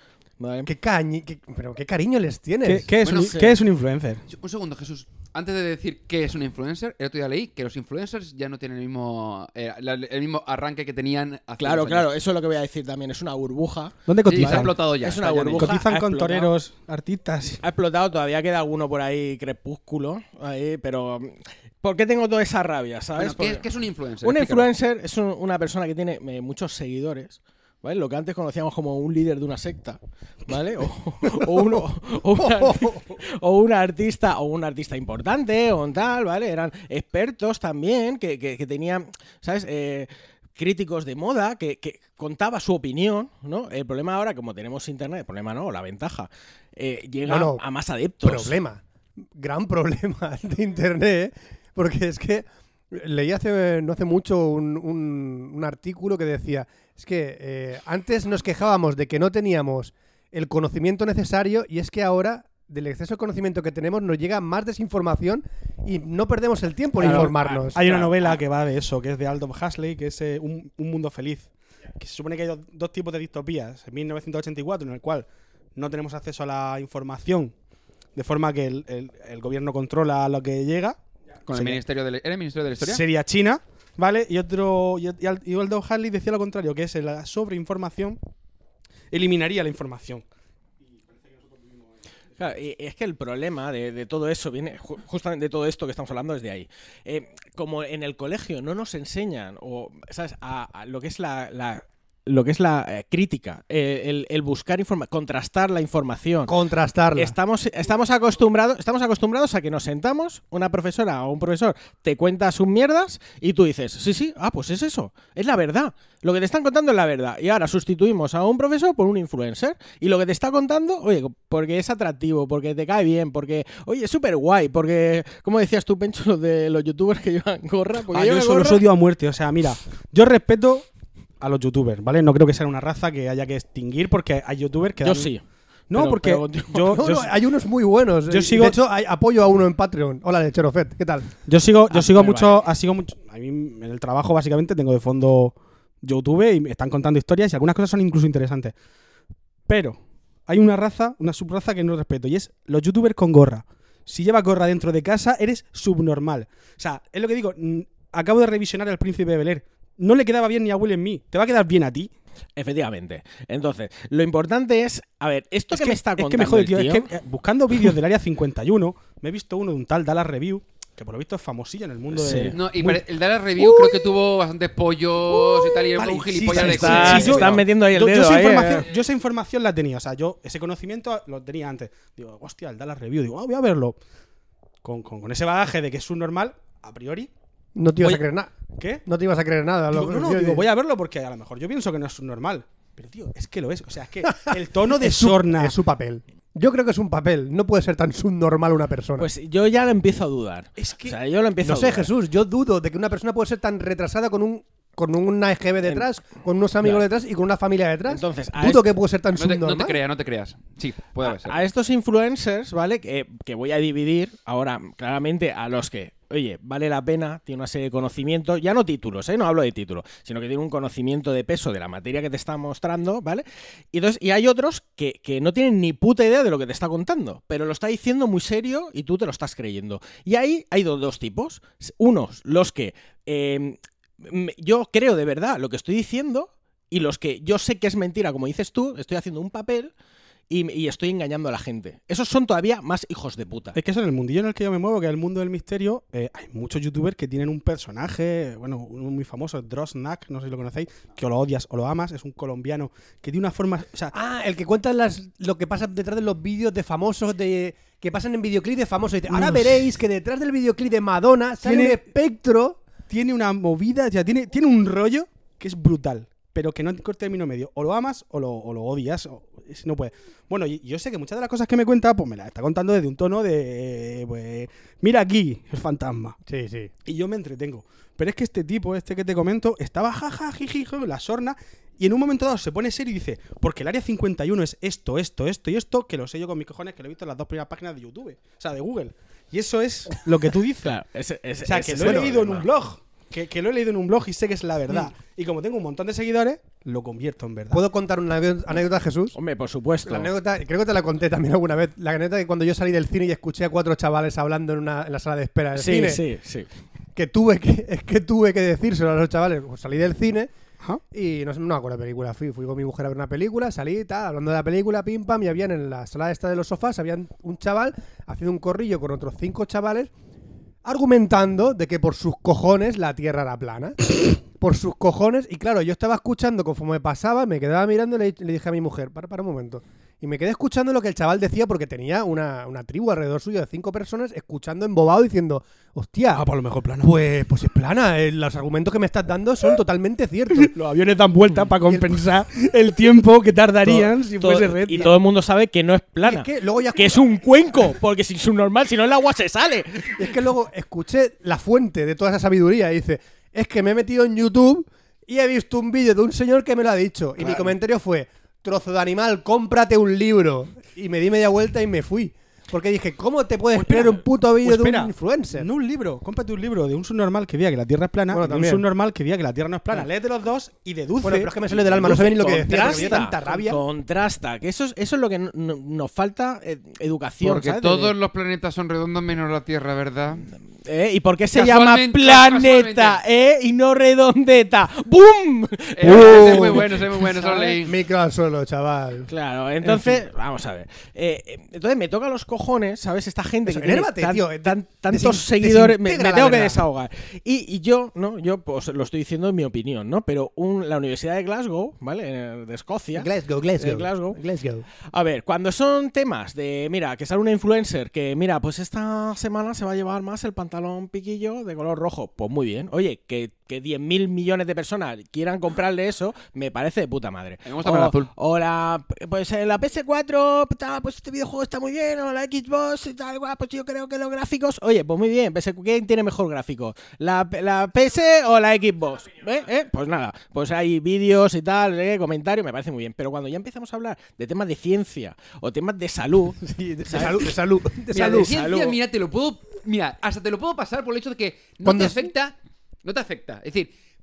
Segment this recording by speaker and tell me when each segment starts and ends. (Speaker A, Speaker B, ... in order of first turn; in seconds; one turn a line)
Speaker A: 0.4-0.7
Speaker B: 0.7-2.9
Speaker C: 2.6-4.2
Speaker D: 3.0-3.4
Speaker A: 3.1-3.6
Speaker D: 4.3-12.1
Speaker A: 11.6-16.6
Speaker C: 14.1-14.8
Speaker D: 14.2-15.8
Speaker C: 15.6-17.6
Speaker A: 17.6-23.7
Speaker D: 23.2-24.7
Speaker A: 24.2-48.5
Speaker B: 32.4-33.0
Speaker B: 47.2-47.6
Speaker B: 48.2-48.8
Speaker B: 49.4-67.9
Speaker C: 67.0-77.5
Speaker A: 67.0-68.3
Speaker C: 78.2-81.8
Speaker D: 81.5-83.0
Speaker C: 82.8-88.2
Speaker C: 89.1-90.2
Speaker C: 91.3-91.9
Speaker A: 92.4-106.5
Speaker B: 106.5-107.3
Speaker A: 107.2-128.8
Speaker C: 128.1-130.9
Speaker C: 131.4-135.3
Speaker A: 135.0-137.1
Speaker C: 135.9-137.3
Speaker B: 136.9-141.3
Speaker C: 138.3-138.8
Speaker C: 141.5-148.7
Speaker A: 141.9-142.6
Speaker C: 149.7-162.1
Speaker A: 162.6-167.1
Speaker C: 165.7-173.0
Speaker A: 172.1-172.6
Speaker D: 172.4-177.6
Speaker C: 173.6-174.0
Speaker C: 175.4-184.0
Speaker A: 176.5-178.9
Speaker C: 184.8-187.3
Speaker B: 187.8-188.5
Speaker C: 188.8-189.0
Speaker B: 189.1-190.7
Speaker C: 189.9-195.8
Speaker B: 194.2-199.3
Speaker A: 199.2-202.1
Speaker C: 200.8-201.2
Speaker B: 201.6-210.0
Speaker A: 208.1-208.9
Speaker D: 209.4-211.6
Speaker A: 211.2-239.9
Speaker A: 240.5-243.8
Speaker C: 243.7-254.1
Speaker B: 254.1-262.8
Speaker C: 259.3-259.9
Speaker C: 261.6-262.0
Speaker C: 263.1-276.4
Speaker B: 276.4-276.9
Speaker C: 277.1-291.0
Speaker A: 290.8-292.7
Speaker C: 291.6-297.8
Speaker B: 292.0-292.3
Speaker B: 297.7-299.4
Speaker A: 299.3-300.3
Speaker B: 300.1-306.2
Speaker A: 305.8-306.7
Speaker B: 307.1-310.5
Speaker B: 311.1-320.1
Speaker B: 320.9-336.4
Speaker C: 336.3-337.1
Speaker B: 337.0-340.7
Speaker C: 340.6-345.1
Speaker B: 341.9-342.3
Speaker B: 343.9-344.1
Speaker A: 344.4-350.3
Speaker B: 346.2-347.8
Speaker B: 350.2-365.7
Speaker C: 363.8-373.2
Speaker B: 368.3-368.9
Speaker B: 371.2-373.8
Speaker A: 372.0-378.1
Speaker D: 377.4-380.5
Speaker A: 380.8-387.7
Speaker D: 381.5-383.2
Speaker D: 386.0-388.0
Speaker B: 386.1-389.3
Speaker A: 389.3-404.4
Speaker B: 389.9-390.1
Speaker B: 393.7-396.8
Speaker B: 403.1-404.9
Speaker A: 405.1-437.4
Speaker D: 417.6-418.3
Speaker B: 436.6-438.5
Speaker D: 438.1-443.9
Speaker A: 438.2-439.0
Speaker B: 441.8-442.3